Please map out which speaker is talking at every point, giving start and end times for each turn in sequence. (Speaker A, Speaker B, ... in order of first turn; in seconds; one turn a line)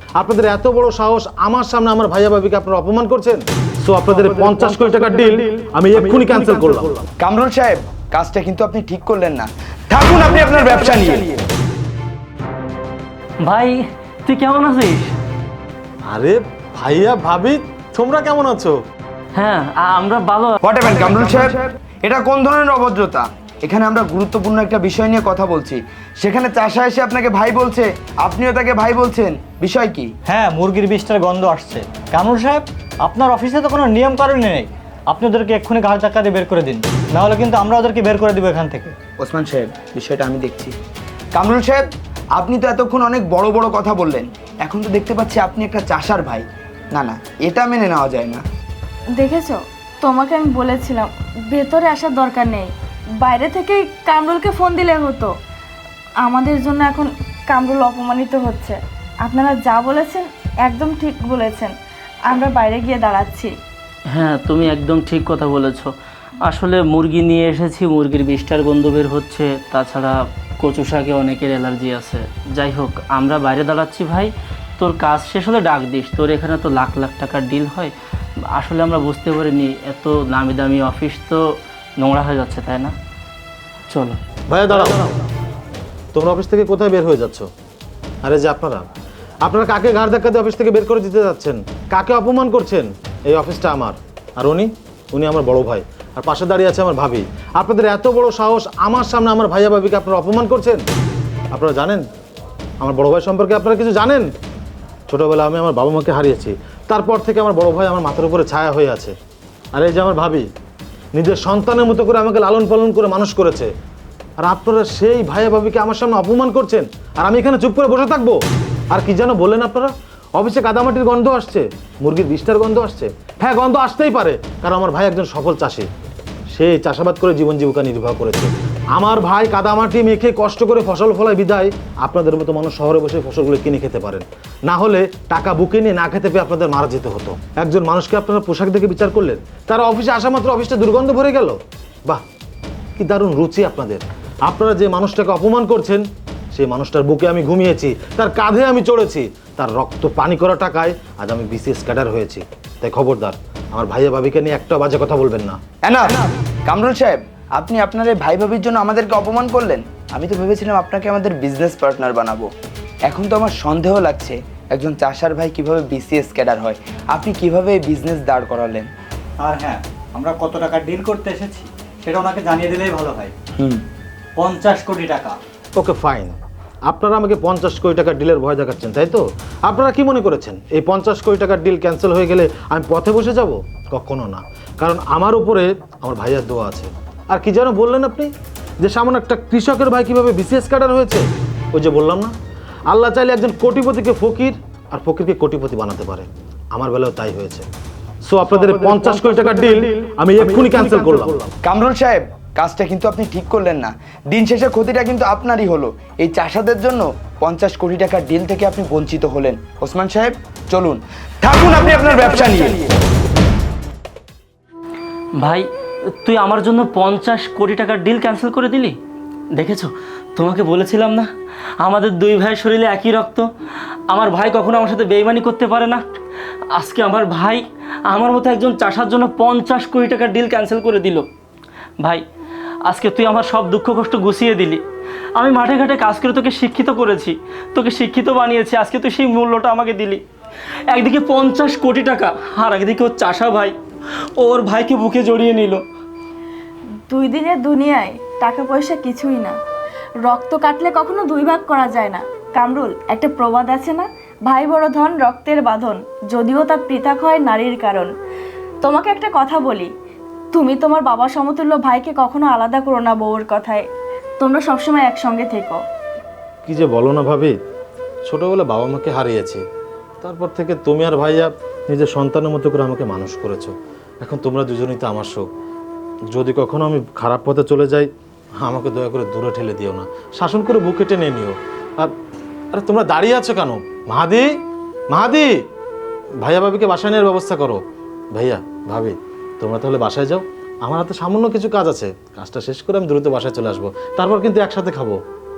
Speaker A: 0.2-7.0
Speaker B: 7.2-11.4
Speaker C: 13.4-15.1
Speaker A: 16.1-18.8
Speaker C: 19.4-20.5
Speaker B: 20.6-30.1
Speaker D: 30.3-38.9
Speaker B: 39.2-40.8
Speaker B: 41.3-41.8
Speaker B: 42.4-48.4
Speaker E: 49.2-55.3
Speaker E: 56.2-61.7
Speaker E: 62.3-63.5
Speaker C: 64.1-65.9
Speaker C: 66.5-77.9
Speaker C: 78.5-82.9
Speaker C: 83.9-84.2
Speaker A: 84.5-85.0
Speaker A: 86.1-87.5
Speaker A: 88.2-88.8
Speaker A: 89.5-100.8
Speaker A: 101.5-102.0
Speaker A: 102.8-104.3
Speaker A: 105.1-109.1
Speaker A: 109.7-110.5
Speaker A: 111.2-113.7
Speaker A: 114.4-118.4
Speaker A: 118.9-125.9
Speaker A: 126.5-142.2
Speaker A: 143.0-155.6
Speaker B: 155.8-162.5
Speaker B: 163.1-168.9
Speaker D: 169.4-173.3
Speaker B: 173.6-173.8
Speaker D: 174.4-175.4
Speaker A: 175.8-176.4
Speaker A: 176.9-192.3
Speaker A: 192.9-197.7
Speaker A: 198.2-201.4
Speaker B: 201.6-212.9
Speaker C: 215.4-219.0
Speaker C: 219.6-223.5
Speaker C: 224.1-226.0
Speaker C: 226.7-231.3
Speaker C: 232.8-234.8
Speaker C: 235.4-240.2
Speaker C: 240.9-243.7
Speaker C: 244.4-245.8
Speaker E: 247.1-249.6
Speaker E: 250.2-258.1
Speaker E: 258.8-259.9
Speaker E: 260.5-263.9
Speaker E: 264.4-265.8
Speaker A: 266.6-267.5
Speaker A: 268.2-269.6
Speaker A: 270.2-275.4
Speaker A: 276.3-278.1
Speaker A: 278.6-282.1
Speaker A: 282.7-284.5
Speaker A: 285.1-285.5
Speaker A: 286.4-287.8
Speaker A: 288.3-295.2